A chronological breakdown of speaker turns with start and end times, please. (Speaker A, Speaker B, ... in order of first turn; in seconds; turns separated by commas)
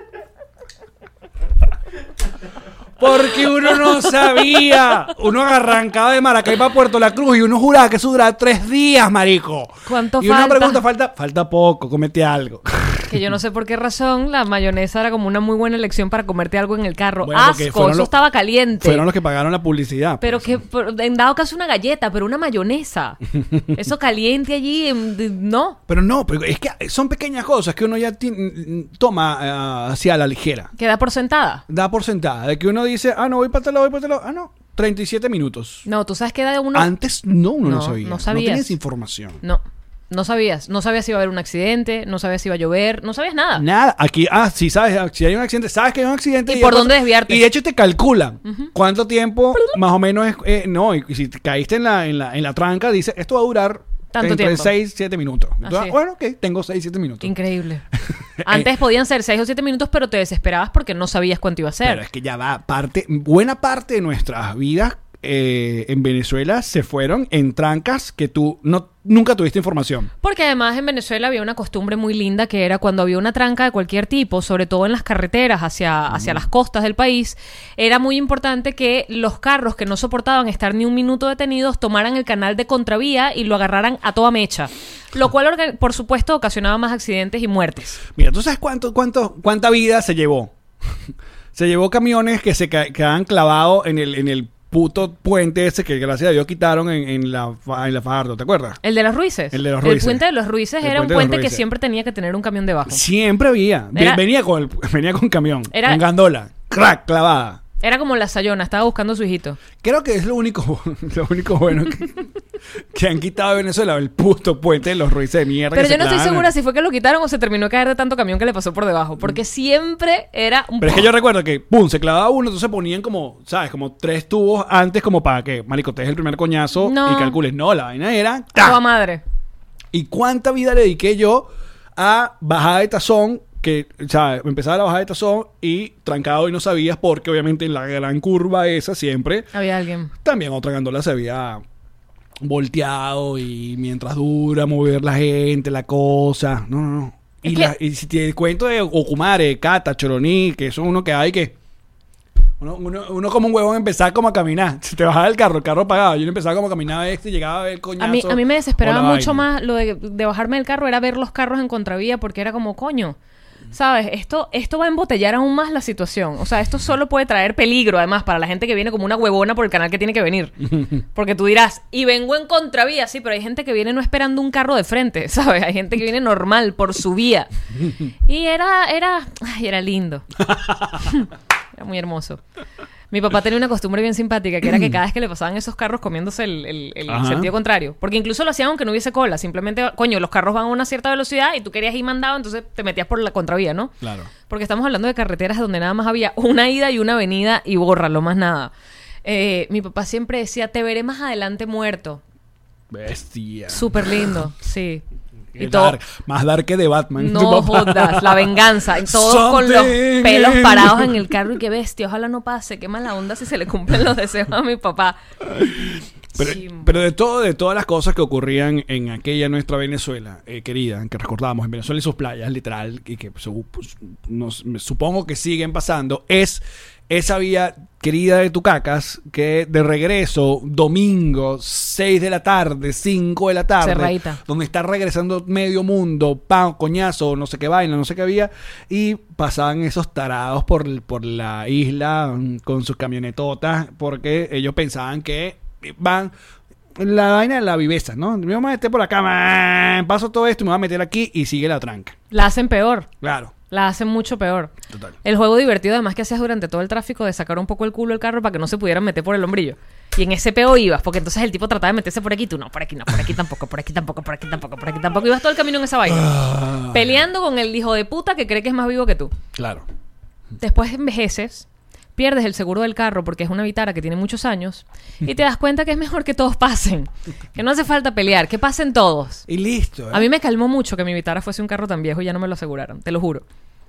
Speaker A: 3.0-13.2, Speaker B: 9.9-10.8, Speaker B: 13.1-19.0, Speaker A: 17.2-18.1, Speaker A: 18.8-20.6, Speaker B: 20.2-23.2, Speaker B: 23.7-25.8, Speaker A: 25.9-30.7, Speaker B: 30.8-31.6, Speaker A: 31.7-35.8, Speaker B: 35.8-36.9, Speaker A: 36.7-39.4, Speaker B: 37.6-38.8, Speaker B: 39.4-43.6, Speaker A: 43.5-57.3, Speaker B: 46.5-47.4, Speaker B: 48.4-48.7, Speaker B: 54.1-54.7, Speaker B: 55.6-55.9, Speaker B: 57.2-57.8, Speaker A: 58.4-58.7, Speaker B: 58.4-62.0, Speaker A: 61.8-70.1, Speaker B: 70.2-88.0, Speaker A: 76.1-76.4, Speaker A: 88.1-90.5, Speaker A: 91.5-98.8, Speaker B: 98.8-103.0, Speaker A: 99.5-100.2, Speaker A: 100.8-101.6, Speaker A: 102.9-107.6, Speaker B: 103.9-104.2, Speaker B: 105.7-106.0, Speaker B: 107.8-109.6, Speaker A: 109.8-112.3, Speaker A: 112.9-116.5, Speaker B: 115.7-121.1, Speaker A: 120.8-128.8, Speaker B: 126.8-127.4, Speaker B: 128.6-129.2, Speaker A: 129.9-139.5, Speaker B: 139.5-140.1, Speaker A: 140.2-141.6, Speaker A: 142.4-151.5, Speaker B: 147.4-147.7, Speaker A: 152.6-159.4, Speaker B: 158.0-163.2, Speaker B: 163.7-177.5, Speaker B: 178.2-180.3, Speaker A: 180.4-181.1, Speaker B: 181.0-182.4, Speaker B: 183.1-193.9, Speaker A: 187.1-187.5, Speaker A: 194.0-194.3, Speaker B: 194.5-198.7, Speaker B: 199.2-202.2, Speaker A: 202.9-204.3, Speaker B: 203.7-205.0, Speaker A: 205.5-211.2, Speaker B: 205.6-206.0, Speaker B: 207.2-215.2, Speaker A: 215.4-246.3, Speaker B: 216.4-216.9, Speaker B: 233.8-234.4, Speaker A: 247.0-252.2, Speaker B: 252.3-253.1, Speaker A: 253.2-253.5, Speaker B: 253.7-254.7, Speaker B: 255.2-269.3, Speaker A: 266.1-267.1, Speaker A: 269.5-269.8, Speaker B: 270.6-279.4, Speaker A: 279.5-280.3, Speaker B: 280.1-283.4